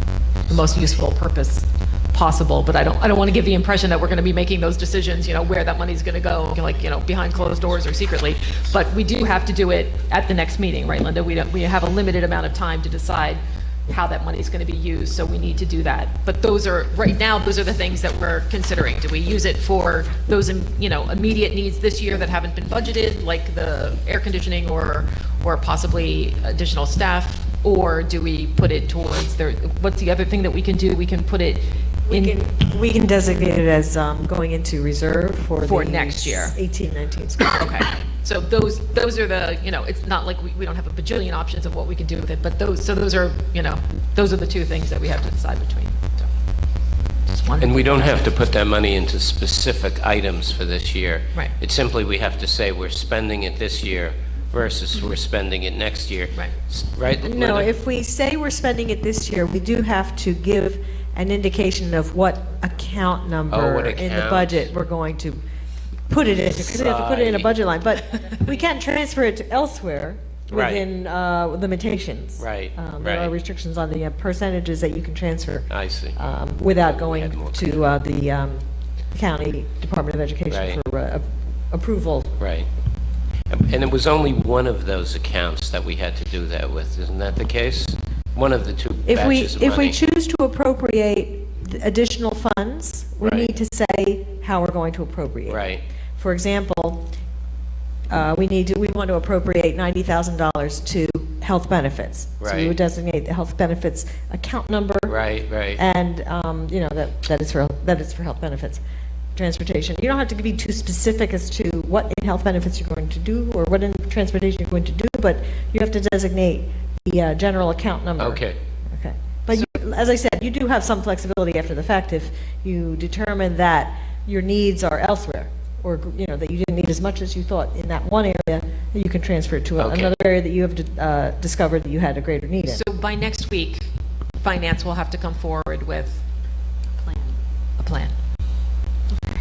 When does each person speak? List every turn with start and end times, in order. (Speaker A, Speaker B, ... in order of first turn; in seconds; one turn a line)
Speaker A: 0.5-32.4
Speaker B: 32.1-37.7
Speaker A: 35.6-36.6
Speaker A: 37.5-46.3
Speaker A: 47.3-48.2
Speaker C: 47.6-57.7
Speaker B: 57.2-65.4
Speaker C: 63.5-64.7
Speaker B: 66.1-82.3
Speaker C: 66.4-67.5
Speaker C: 70.5-70.8
Speaker C: 72.4-73.3
Speaker C: 75.7-76.2
Speaker C: 76.8-77.9
Speaker C: 80.5-80.8
Speaker C: 82.4-82.7
Speaker C: 83.5-90.0
Speaker B: 89.0-95.6
Speaker C: 93.2-93.5
Speaker C: 95.5-95.8
Speaker B: 96.2-97.1
Speaker B: 98.1-105.2
Speaker C: 102.4-102.8
Speaker C: 105.1-105.8
Speaker B: 105.7-108.8
Speaker B: 109.3-118.4
Speaker C: 118.2-118.6
Speaker B: 118.9-132.8
Speaker C: 129.8-130.1
Speaker A: 132.7-133.9
Speaker A: 134.4-136.2
Speaker A: 137.8-138.1